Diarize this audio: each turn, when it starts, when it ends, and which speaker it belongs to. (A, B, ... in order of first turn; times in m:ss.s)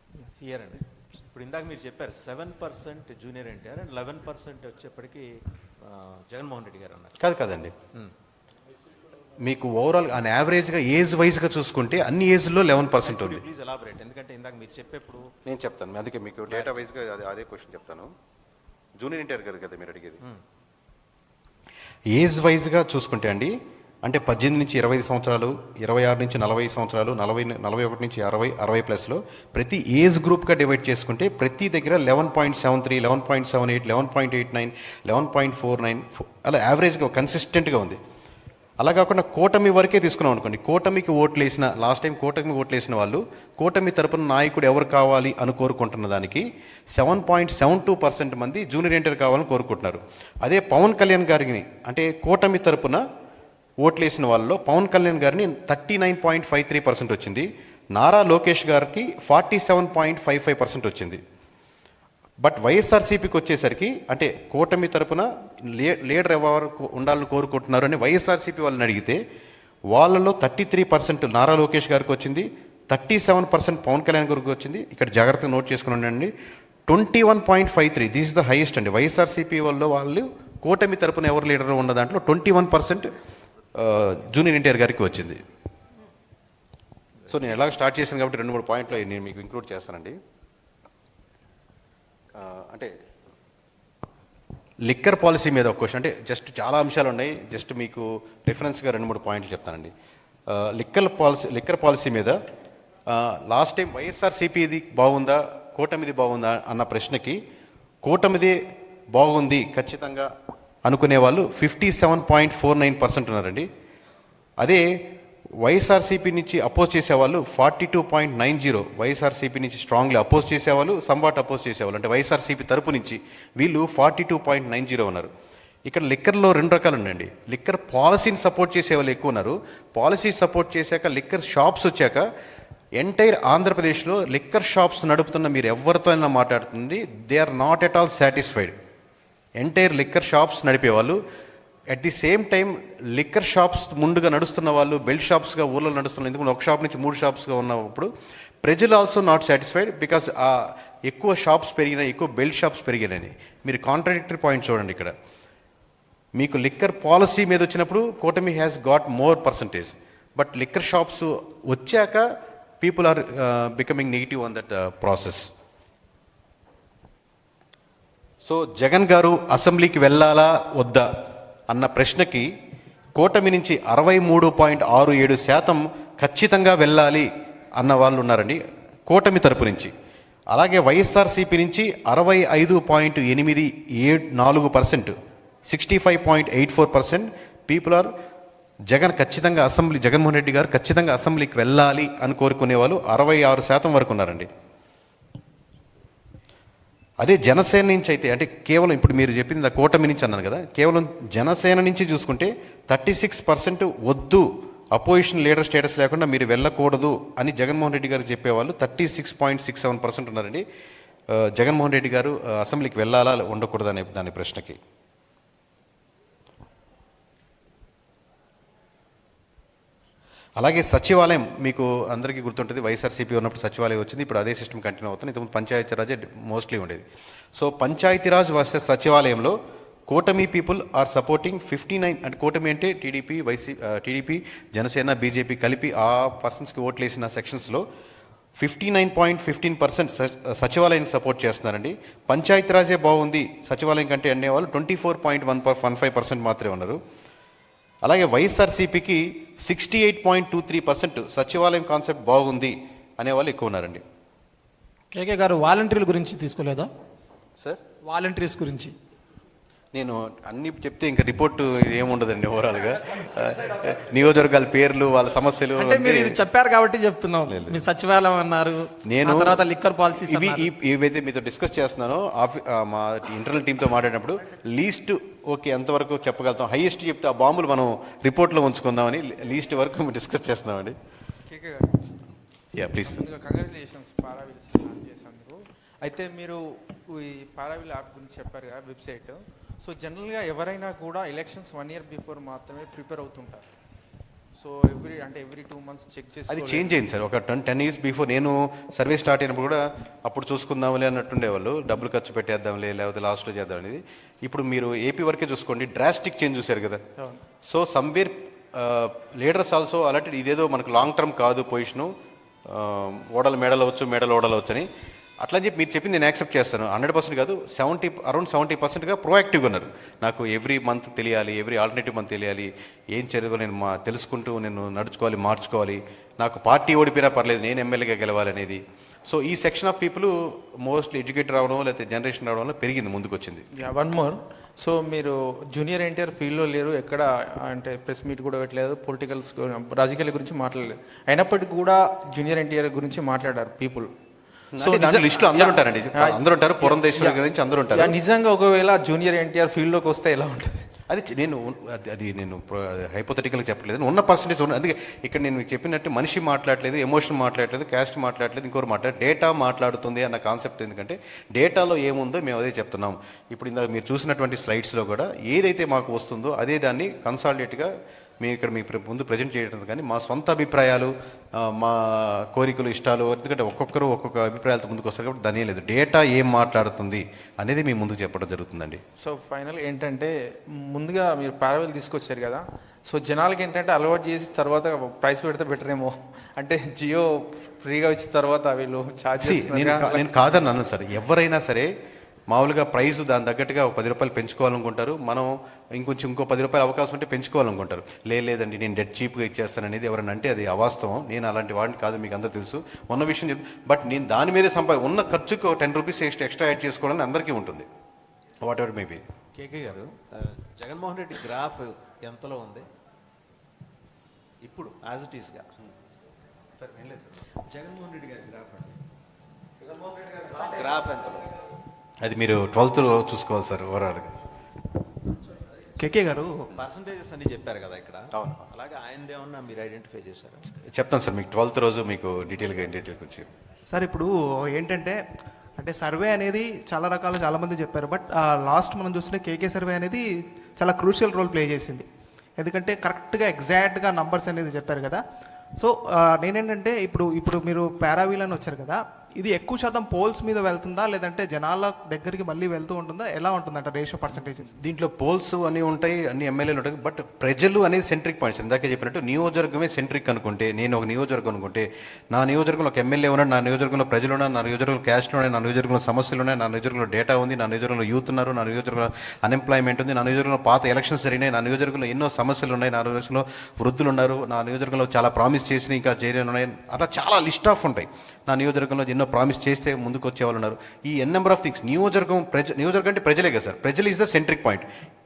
0:00.4-0:05.2 A
0:05.8-0:07.2 A
0:07.2-0:07.7 B
0:09.4-0:13.4 B
0:13.0-0:15.3 A
0:15.4-0:18.1 B
0:19.0-0:20.2 B
0:22.1-0:23.5 B
0:24.0-0:38.0 B
0:38.8-0:53.0 B
0:53.8-1:01.2 B
1:02.4-1:09.2 B
1:09.9-1:16.3 B
1:16.9-1:23.1 B
1:23.8-1:25.4 B
1:27.3-1:30.2 B
1:32.4-1:32.9 B
1:34.8-1:39.9 B
1:40.5-1:42.4 B
1:43.1-1:47.4 B
1:48.0-1:48.6 B
1:49.1-1:50.3 B
1:50.8-1:53.7 B
1:55.6-2:05.3 B
2:05.9-2:12.2 B
2:13.0-2:18.7 B
2:19.6-2:21.2 B
2:21.9-2:28.1 B
2:28.6-2:35.1 B
2:36.4-2:42.2 B
2:42.8-2:45.5 B
2:48.4-2:51.1 B
2:51.7-2:52.5 B
2:53.2-2:59.9 B
3:00.5-3:05.1 B
3:05.6-3:08.1 B
3:08.9-3:14.5 B
3:17.2-3:30.6 B
3:31.3-3:34.8 B
3:40.6-3:47.0 B
3:47.6-3:49.6 B
3:50.1-3:57.8 B
3:58.6-4:07.0 B
4:08.0-4:14.0 B
4:15.1-4:16.9 C
4:18.0-4:18.9 C
4:19.9-4:26.4 B
4:25.7-4:30.7 C
4:27.5-4:27.8 B
4:29.0-4:29.6 B
4:30.2-4:41.0 B
4:41.5-4:42.0 D
4:42.7-4:43.2 B
4:43.0-4:53.7 D
4:54.6-4:57.0 D
4:56.5-5:07.0 B
5:07.7-5:12.1 B
5:12.7-5:14.9 B
5:15.4-5:33.6 B
5:33.7-5:44.1 D
5:44.7-5:48.2 B
5:44.8-5:50.8 D
5:51.1-6:07.9 B
6:08.4-6:19.0 B
6:19.2-6:20.3 D
6:20.9-6:30.6 D
6:29.4-6:31.9 B
6:32.5-6:47.9 B
6:48.6-6:49.2 B
6:49.6-6:52.8 A
6:54.6-6:55.6 A
6:56.8-6:57.3 B
6:57.7-6:59.0 A
7:00.2-7:01.5 A
7:02.2-7:04.3 B
7:06.0-7:06.7 E
7:06.7-7:10.6 A
7:08.3-7:08.6 B
7:10.9-7:13.5 B
7:13.9-7:15.2 E
7:15.8-7:20.2 E
7:20.8-7:22.0 E
7:22.6-7:25.2 E
7:25.8-7:34.7 E
7:34.6-8:04.8 B